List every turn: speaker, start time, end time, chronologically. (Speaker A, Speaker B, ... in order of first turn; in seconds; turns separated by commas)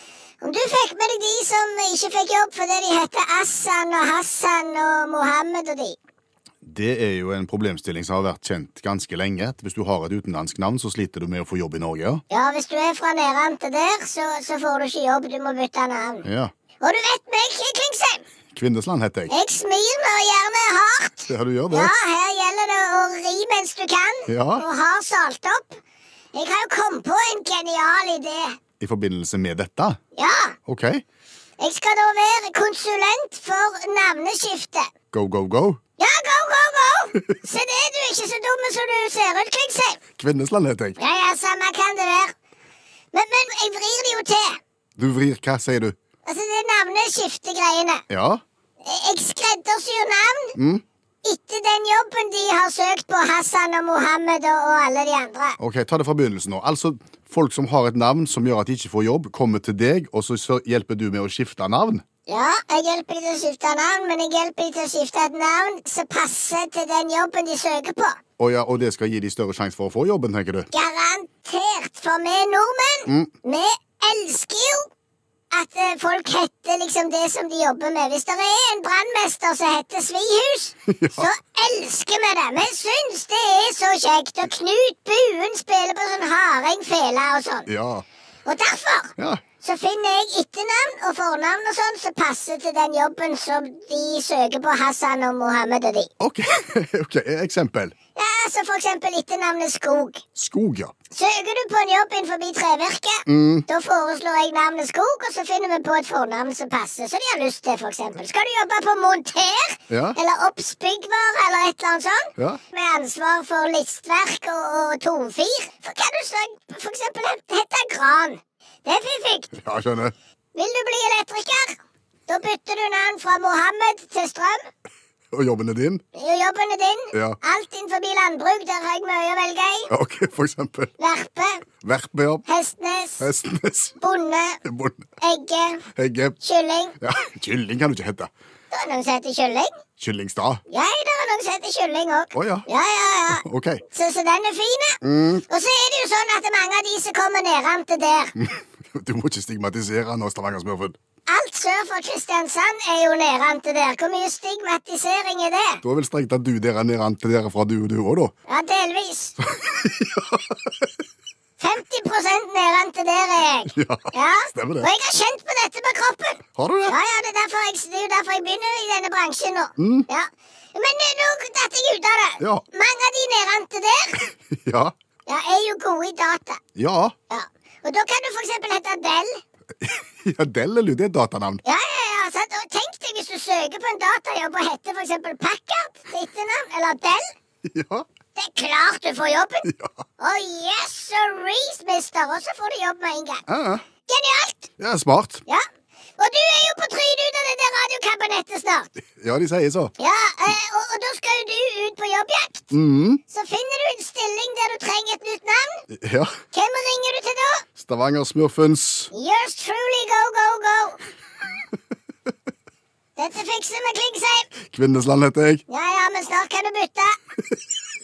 Speaker A: 0.4-6.0, Speaker B: 6.6-12.2, Speaker A: 12.3-16.3, Speaker B: 16.2-16.5, Speaker A: 16.8-18.2, Speaker B: 18.5-19.3, Speaker A: 19.3-25.8, Speaker B: 21.3-21.9, Speaker B: 24.3-24.6, Speaker A: 26.3-28.6, Speaker B: 28.8-30.0, Speaker A: 30.2-30.6, Speaker B: 30.7-31.0, Speaker A: 31.6-34.9, Speaker B: 35.1-35.8, Speaker A: 36.0-40.0, Speaker B: 40.2-41.0, Speaker A: 41.0-42.4, Speaker A: 43.1-44.6, Speaker B: 45.0-46.0, Speaker A: 46.2-48.0, Speaker B: 48.1-48.4, Speaker A: 48.8-50.6, Speaker B: 50.6-50.8, Speaker A: 51.2-55.6, Speaker B: 55.6-62.0, Speaker A: 62.3-68.2, Speaker B: 68.4-70.7, Speaker A: 70.7-74.9, Speaker A: 75.5-87.7, Speaker B: 80.9-81.3, Speaker B: 87.7-88.0, Speaker A: 88.5-96.1, Speaker B: 96.2-97.9, Speaker A: 98.2-100.2, Speaker B: 100.4-100.9, Speaker A: 101.1-119.6, Speaker B: 103.3-103.7, Speaker B: 109.9-110.2, Speaker B: 119.6-120.1, Speaker A: 120.5-124.7, Speaker B: 125.3-126.0, Speaker A: 126.1-129.9, Speaker B: 129.9-130.9, Speaker A: 131.0-131.7, Speaker B: 131.8-132.4, Speaker A: 132.5-133.3, Speaker B: 133.2-134.0, Speaker A: 134.0-134.6, Speaker B: 134.7-135.1, Speaker A: 135.2-135.8, Speaker B: 135.9-136.4, Speaker A: 136.4-137.0, Speaker B: 137.0-138.3, Speaker A: 138.7-139.7, Speaker B: 140.0-140.6, Speaker A: 140.7-148.3, Speaker B: 142.3-142.7, Speaker B: 143.3-143.8, Speaker B: 145.0-145.4, Speaker B: 148.4-151.0, Speaker A: 151.3-155.8, Speaker B: 155.8-158.3, Speaker A: 158.5-159.4, Speaker B: 159.5-160.6, Speaker A: 161.6-174.3, Speaker B: 163.7-164.9, Speaker B: 166.6-167.0, Speaker B: 169.8-170.1, Speaker B: 174.5-174.9, Speaker A: 175.3-176.6, Speaker B: 176.8-177.1, Speaker A: 177.3-179.4, Speaker B: 179.8-181.6, Speaker A: 181.7-187.2, Speaker B: 187.7-188.1, Speaker A: 188.3-189.7, Speaker B: 189.7-189.9, Speaker A: 190.2-193.4, Speaker B: 193.5-193.8, Speaker A: 194.1-194.7, Speaker B: 194.8-195.4, Speaker A: 196.2-198.9, Speaker B: 199.1-199.9, Speaker A: 200.0-202.7, Speaker B: 202.7-203.2, Speaker A: 203.3-205.8, Speaker B: 205.9-206.3, Speaker A: 206.5-207.7, Speaker B: 207.8-209.1, Speaker A: 209.1-211.0, Speaker A: 213.2-214.5, Speaker B: 214.7-215.6, Speaker A: 215.7-217.2